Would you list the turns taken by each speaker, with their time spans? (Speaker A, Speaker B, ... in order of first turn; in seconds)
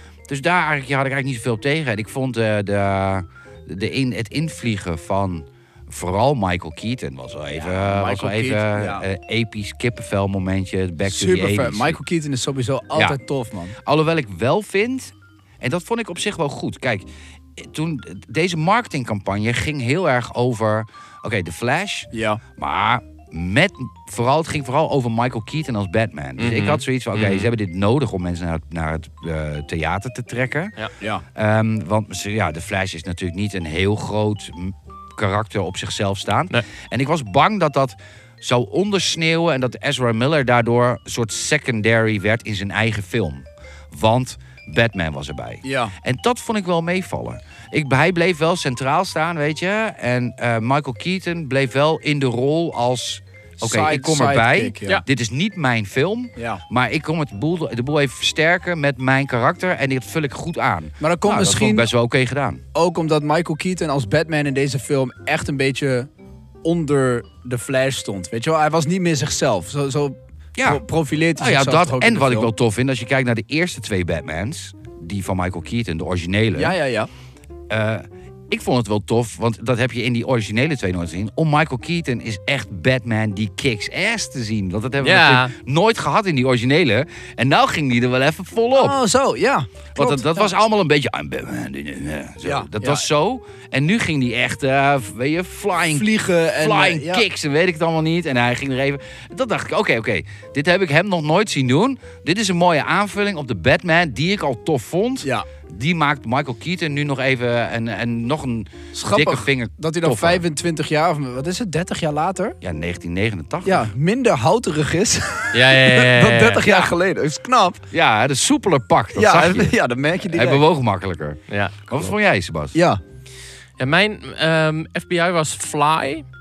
Speaker A: 0.3-12.0, 13.8-62.6, 70.6-70.8, 71.4-76.8, 77.7-89.0, 89.9-110.4, 112.6-113.9, 117.9-119.8, 120.3-122.8
Speaker B: 7.5-9.1, 11.1-13.8, 22.1-22.4, 45.6-45.9, 53.6-55.0, 56.4-56.6, 61.0-61.9, 62.7-66.1, 66.6-72.5, 76.5-77.1, 88.7-90.5, 92.4-93.1, 95.9-97.2, 108.9-112.6, 113.6-117.8, 119.1-120.6, 122.7-123.0
Speaker C: 26.4-27.5, 85.0-85.5, 115.5-116.9, 121.5-122.1, 123.8-126.2